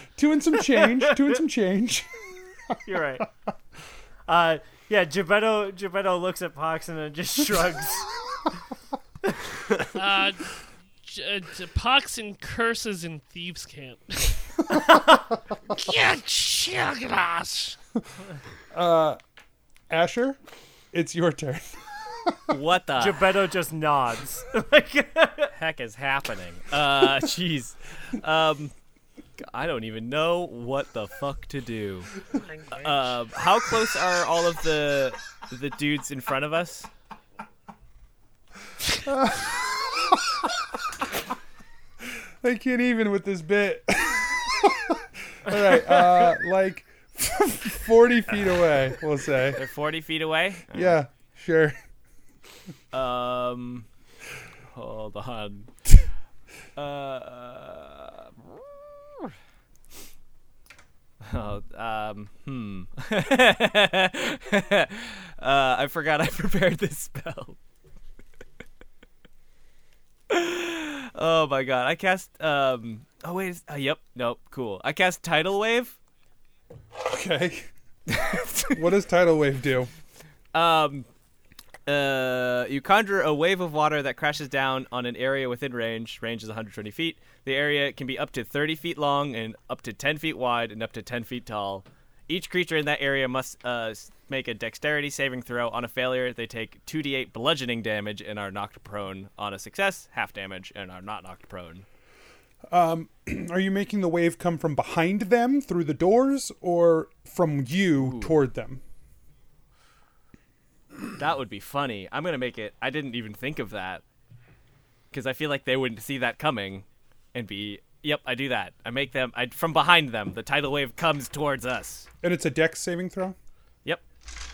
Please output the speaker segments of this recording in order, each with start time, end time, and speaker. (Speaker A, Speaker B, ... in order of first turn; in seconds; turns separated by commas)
Speaker A: 0.2-2.1, Speaker B: 0.7-1.2, Speaker B: 2.9-3.3, Speaker B: 4.3-8.1, Speaker C: 9.9-14.8, Speaker C: 15.7-17.8, Speaker A: 18.7-19.2, Speaker A: 19.9-20.4, Speaker A: 20.9-21.8, Speaker D: 22.5-23.2, Speaker B: 23.0-25.5, Speaker D: 25.5-28.7, Speaker D: 29.4-32.1, Speaker C: 32.3-33.2, Speaker D: 32.7-36.9, Speaker A: 39.1-39.6, Speaker A: 40.1-40.4, Speaker A: 42.4-49.6, Speaker D: 49.5-51.0, Speaker A: 50.7-51.8, Speaker D: 52.9-53.9, Speaker D: 54.7-56.0, Speaker D: 56.8-59.3, Speaker D: 61.2-67.6, Speaker D: 70.3-76.0, Speaker A: 77.0-77.7, Speaker D: 78.1-78.7, Speaker A: 78.7-79.9, Speaker D: 80.5-81.1, Speaker D: 81.9-101.9, Speaker A: 102.7-108.8, Speaker D: 108.0-108.4, Speaker D: 111.2-114.0, Speaker D: 115.1-122.1, Speaker A: 122.2-123.4